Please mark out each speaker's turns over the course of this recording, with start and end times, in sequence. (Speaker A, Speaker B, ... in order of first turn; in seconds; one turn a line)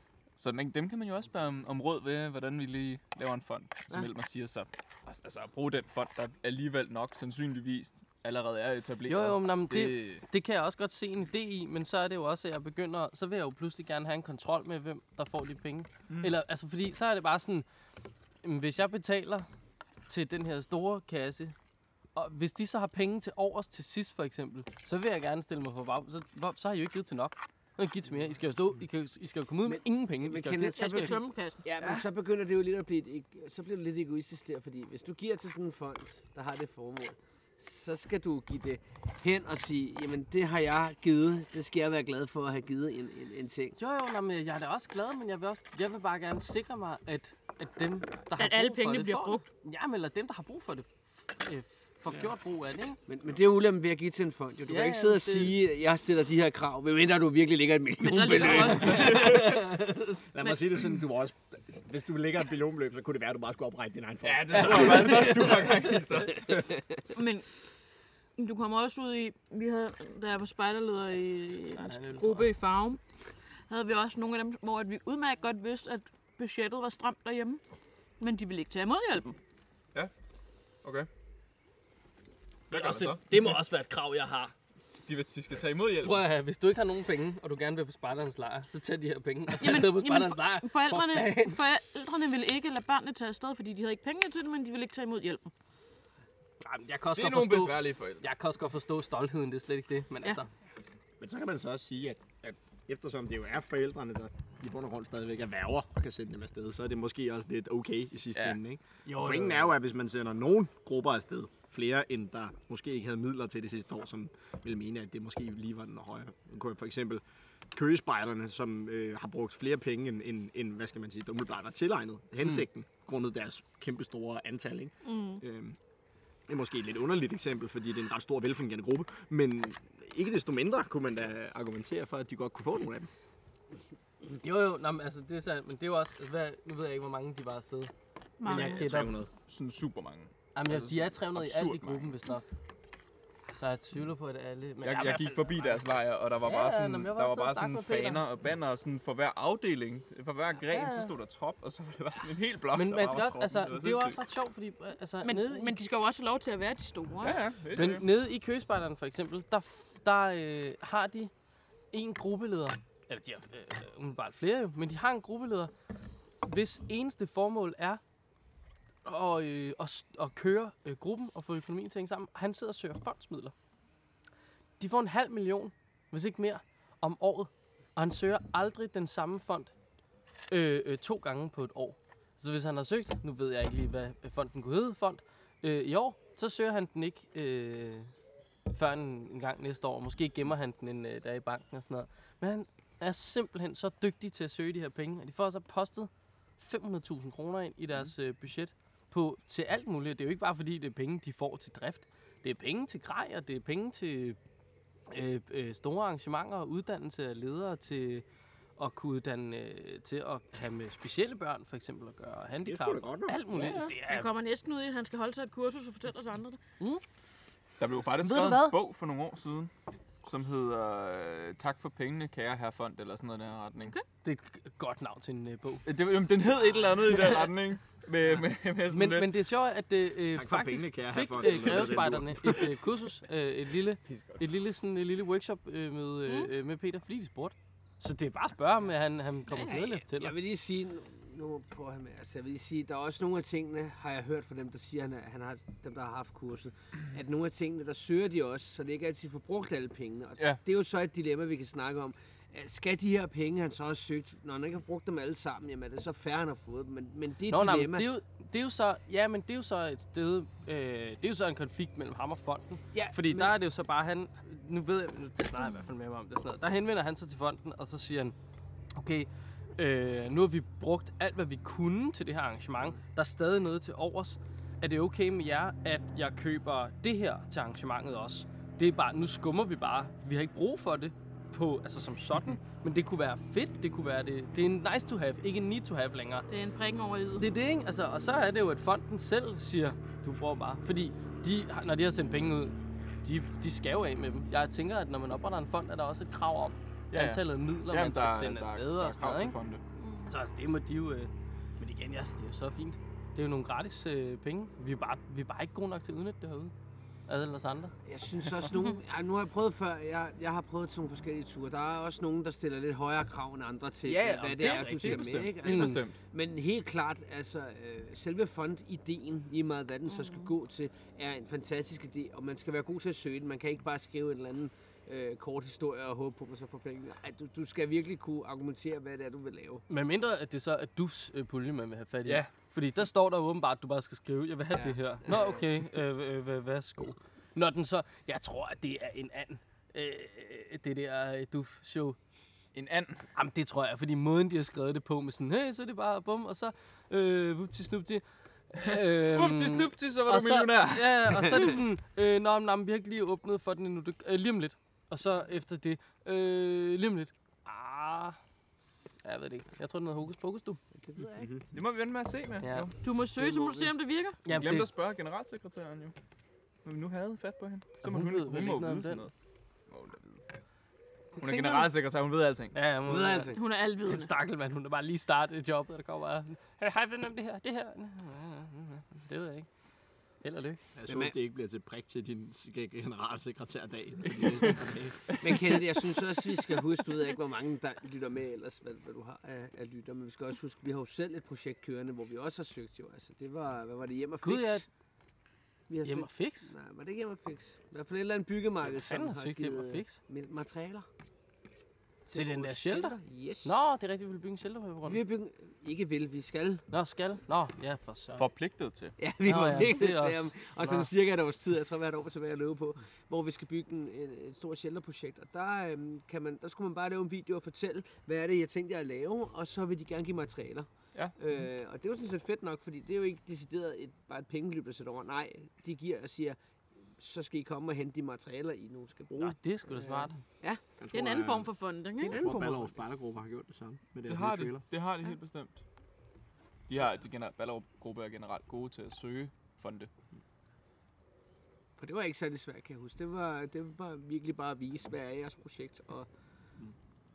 Speaker A: 0.4-10.2
Speaker B: 9.1-17.6
Speaker B: 18.4-19.5
Speaker B: 20.1-21.5
Speaker B: 22.1-31.2
Speaker C: 29.7-43.8
Speaker D: 30.8-32.0
Speaker B: 43.8-53.0
Speaker D: 48.4-49.4
Speaker C: 53.1-60.0
Speaker B: 54.7-55.5
Speaker D: 58.0-59.7
Speaker B: 58.4-59.2
Speaker A: 58.9-59.4
Speaker E: 60.3-65.4
Speaker A: 64.2-66.6
Speaker C: 64.7-65.7
Speaker C: 66.5-67.0
Speaker D: 67.1-67.5
Speaker D: 68.4-73.0
Speaker B: 71.6-72.5
Speaker D: 73.7-77.6
Speaker D: 78.2-79.4
Speaker A: 80.8-81.1
Speaker B: 82.7-84.5
Speaker A: 82.7-83.6
Speaker A: 84.9-86.2
Speaker B: 86.0-92.0
Speaker D: 89.6-95.5
Speaker B: 96.6-100.5
Speaker A: 97.1-98.2
Speaker E: 101.2-117.2
Speaker B: 109.0-109.7
Speaker E: 117.7-125.8
Speaker D: 125.0-125.4
Speaker E: 126.5-133.1
Speaker B: 134.4-137.9
Speaker D: 138.4-138.9
Speaker B: 138.4-139.1
Speaker E: 138.5-139.3
Speaker A: 139.3-142.1
Speaker B: 140.5-142.5
Speaker B: 143.6-145.8
Speaker A: 144.8-154.2
Speaker B: 146.4-148.2
Speaker B: 150.7-151.1
Speaker B: 152.7-155.8
Speaker D: 155.2-157.4
Speaker A: 157.2-158.1
Speaker B: 157.7-161.3
Speaker B: 161.9-165.7
Speaker B: 166.4-168.0
Speaker B: 169.0-173.5
Speaker B: 174.8-179.7
Speaker B: 180.5-188.1
Speaker B: 188.7-204.4
Speaker B: 205.1-208.2
Speaker B: 208.8-214.3
Speaker E: 212.6-213.5
Speaker D: 213.7-216.6
Speaker A: 217.8-219.7
Speaker B: 218.2-218.8
Speaker A: 220.2-223.9
Speaker B: 224.2-225.8
Speaker A: 225.8-229.3
Speaker B: 228.9-240.3
Speaker E: 230.3-232.7
Speaker A: 234.0-234.4
Speaker D: 239.5-240.0
Speaker C: 240.2-258.1
Speaker B: 257.5-268.4
Speaker C: 262.9-263.5
Speaker B: 269.0-286.5
Speaker D: 286.5-287.5
Speaker B: 287.4-299.6
Speaker A: 297.1-299.8
Speaker D: 300.0-300.3
Speaker B: 300.2-306.7
Speaker B: 307.3-307.9
Speaker C: 308.1-329.8
Speaker B: 314.0-316.0
Speaker A: 314.7-316.2
Speaker D: 320.1-320.5
Speaker B: 329.9-342.2
Speaker A: 342.7-343.2
Speaker B: 343.3-358.4
Speaker A: 348.8-351.8
Speaker B: 359.2-360.8
Speaker C: 361.0-361.5
Speaker E: 361.4-361.6
Speaker A: 361.7-362.9
Speaker B: 362.6-362.9
Speaker D: 363.0-364.4
Speaker C: 363.4-363.9
Speaker B: 364.4-364.9
Speaker A: 364.5-366.1
Speaker A: 366.8-369.3
Speaker B: 368.0-369.2
Speaker A: 369.9-370.4
Speaker C: 371.4-371.9
Speaker A: 371.4-372.7
Speaker B: 372.7-379.7
Speaker C: 373.1-373.6
Speaker D: 373.5-374.3
Speaker B: 380.4-380.8
Speaker E: 380.9-385.4
Speaker C: 381.1-381.3
Speaker A: 385.3-385.6
Speaker C: 385.4-394.9
Speaker B: 394.4-394.9
Speaker C: 395.9-401.1
Speaker B: 396.0-396.7
Speaker B: 398.8-400.2
Speaker C: 402.3-403.8
Speaker B: 402.3-405.2
Speaker C: 405.0-406.8
Speaker B: 406.9-408.4
Speaker A: 408.4-409.1
Speaker C: 409.2-426.6
Speaker B: 409.4-411.1
Speaker C: 427.2-430.8
Speaker B: 429.3-430.4
Speaker E: 431.0-431.7
Speaker D: 431.1-432.4
Speaker E: 432.2-434.9
Speaker C: 432.2-433.0
Speaker A: 434.2-435.8
Speaker A: 436.9-440.1
Speaker C: 442.0-446.3